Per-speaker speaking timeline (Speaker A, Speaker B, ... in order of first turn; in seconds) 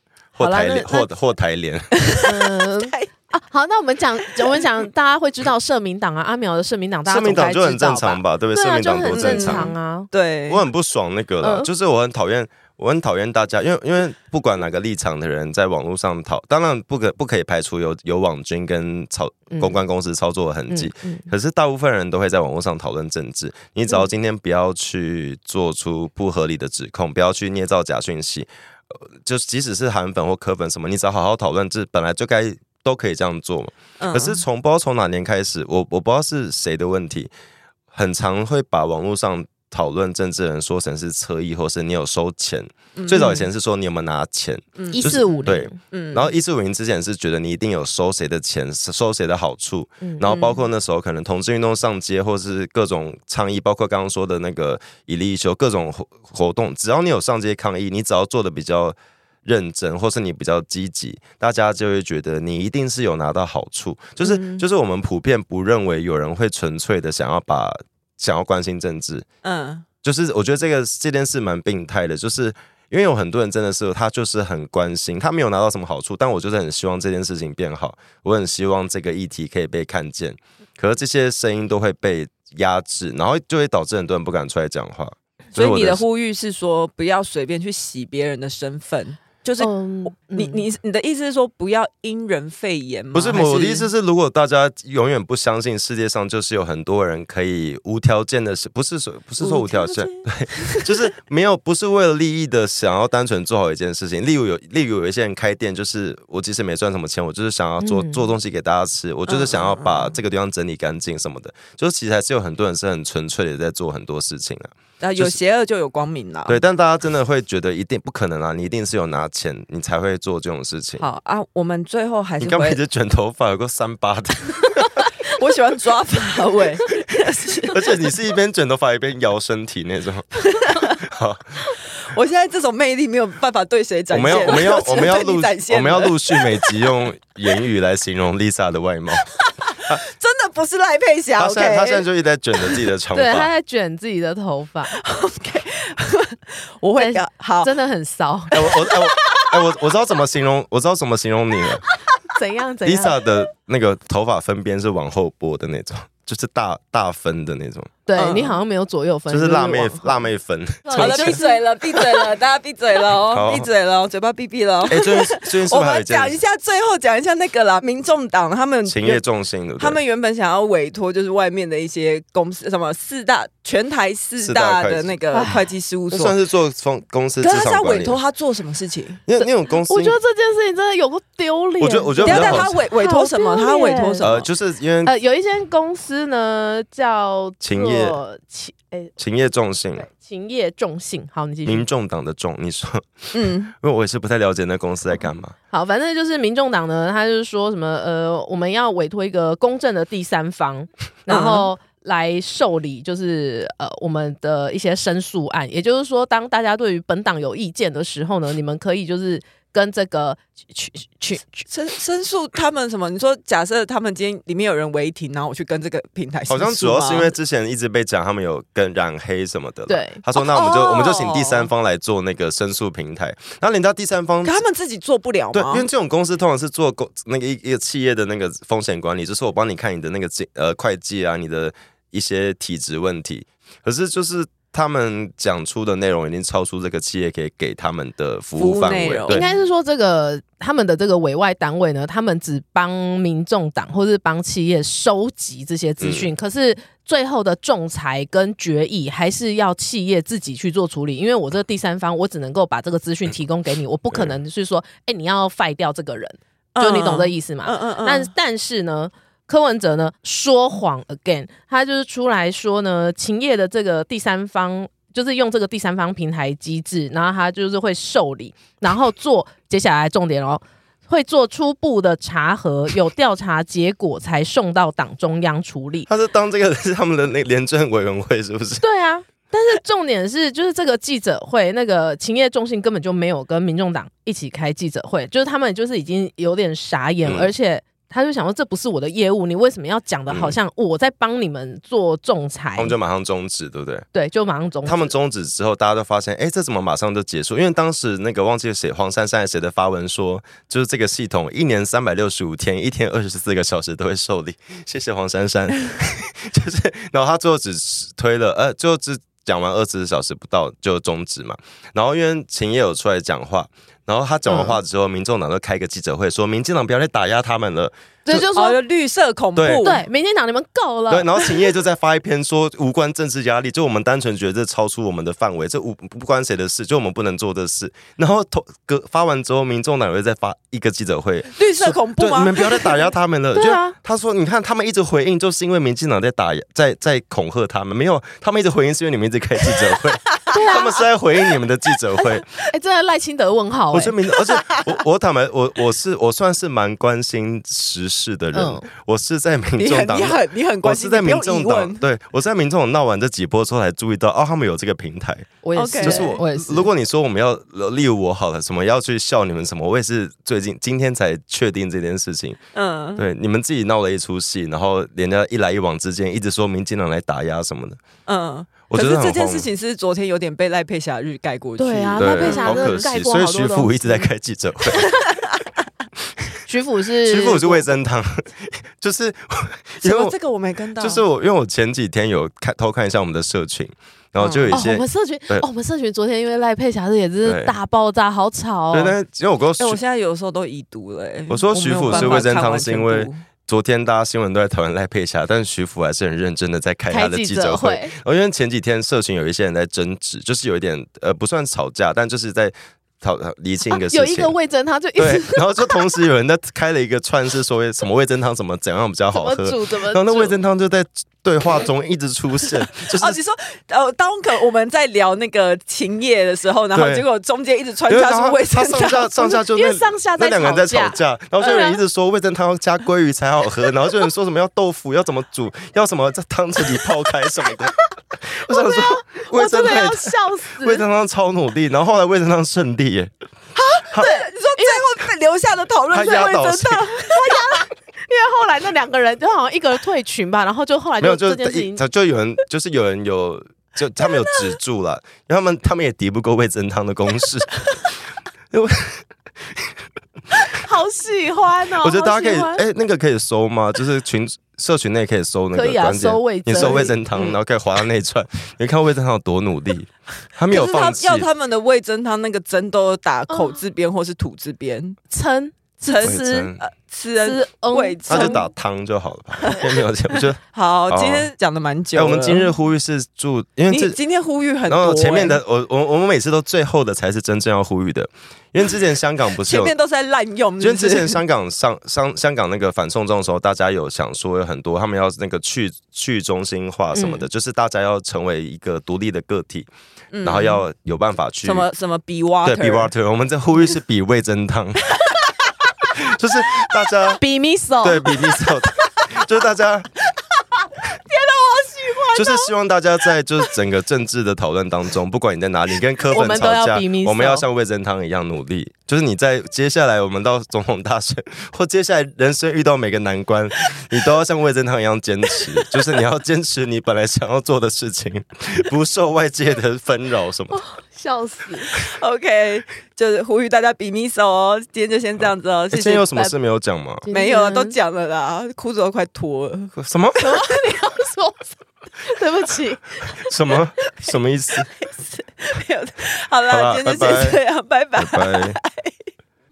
Speaker A: 0.3-2.0, 7.1-9.7, 10.5-37.3, 37.9-69.2, 70.0-86.0, 93.1-115.3, 116.5-121.0, 122.4-125.1, 127.7-131.6, 134.1-139.3, 141.4-143.5, 148.5-151.8, 152.8-157.9, 159.3-161.4, 163.3-163.7, 164.9-166.4, 168.9-170.0, 174.4-175.1, 176.1-178.2, 179.2-180.2, 181.8-182.7, 184.2-185.1, 187.6-188.2, 189.2-190.1, 191.6-195.5, 216.5-224.6, 225.5-239.4, 246.0-246.3, 276.1-278.8, 287.2-287.5, 290.3-290.6, 292.8-294.1, 294.8-318.5, 319.6-319.9, 321.1-342.4, 343.9-362.6, 363.1-368.0, 368.9-369.7, 372.2-375.2, 377.2-380.3, 381.0-385.6, 387.4-387.7, 388.9-390.0, 391.5-404.5, 405.2-413.4, 416.9-417.2, 418.1-433.3, 436.1-437.1, 441.2-447.8, 448.7-450.0, 452.0-461.5, 466.2-466.8, 468.3-471.5, 472.1-474.2, 474.9-479.9, 480.8-489.9, 490.4-491.9, 492.6-495.2, 496.0-497.4, 498.0-500.1, 502.3-520.8, 525.9-527.2, 530.0-530.6, 533.5-534.9, 536.7-537.6, 538.1-538.8
Speaker B: 0.3-1.1, 2.2-10.1, 11.4-11.7, 19.5-19.8, 20.7-21.3, 44.9-45.8, 89.6-90.6, 107.8-108.2, 143.1-145.0, 147.0-148.7, 152.3-153.2, 158.1-160.3, 160.8-161.6, 175.3-175.7, 179.4-184.3, 185.0-189.1, 190.0-191.8, 195.7-211.6, 219.9-220.2, 239.3-276.1, 278.8-292.9, 294.1-295.1, 318.2-318.8, 319.8-321.7, 333.5-333.9, 340.5-340.9, 342.7-344.1, 348.5-348.9, 355.6-356.9, 371.8-374.2, 376.7-377.9, 384.7-389.1, 392.1-392.4, 397.1-398.1, 403.9-406.1, 409.3-410.6, 419.3-422.0, 428.7-431.0, 434.2-435.0, 437.3-442.0, 450.7-452.8, 455.7-457.1, 463.5-463.8, 465.3-466.8, 467.4-468.6, 487.1-487.4, 497.4-498.4, 506.3-507.6, 520.7-521.9, 527.2-527.9, 530.4-531.7, 532.2-533.1
Speaker C: 2.0-3.1, 9.1-10.6, 34.0-34.4, 43.0-43.5, 44.8-46.3, 50.2-50.6, 64.2-64.6, 69.4-69.8, 85.5-93.9, 99.4-101.0, 109.3-110.1, 115.0-116.6, 121.0-122.8, 125.2-128.0, 130.5-131.0, 131.8-136.9, 139.2-142.1, 144.9-147.7, 148.5-149.7, 158.2-158.6, 160.9-169.2, 169.8-176.3, 177.4-179.2, 182.2-184.5, 193.3-193.7, 201.3-201.7, 211.7-217.3, 220.3-221.7, 224.4-225.9, 238.6-239.5, 256.8-258.3, 318.4-320.0, 331.6-333.0, 349.8-352.0, 355.8-356.4, 362.7-363.3, 368.2-373.1, 380.0-381.2, 384.4-384.8, 389.8-393.4, 413.0-419.3, 433.8-437.8, 456.8-457.6, 460.7-465.2, 466.1-468.6, 470.7-472.7, 473.9-475.6, 479.6-481.4, 490.3-490.8, 491.6-493.1, 501.4-502.6, 521.9-526.4, 527.3-530.0, 534.8-539.1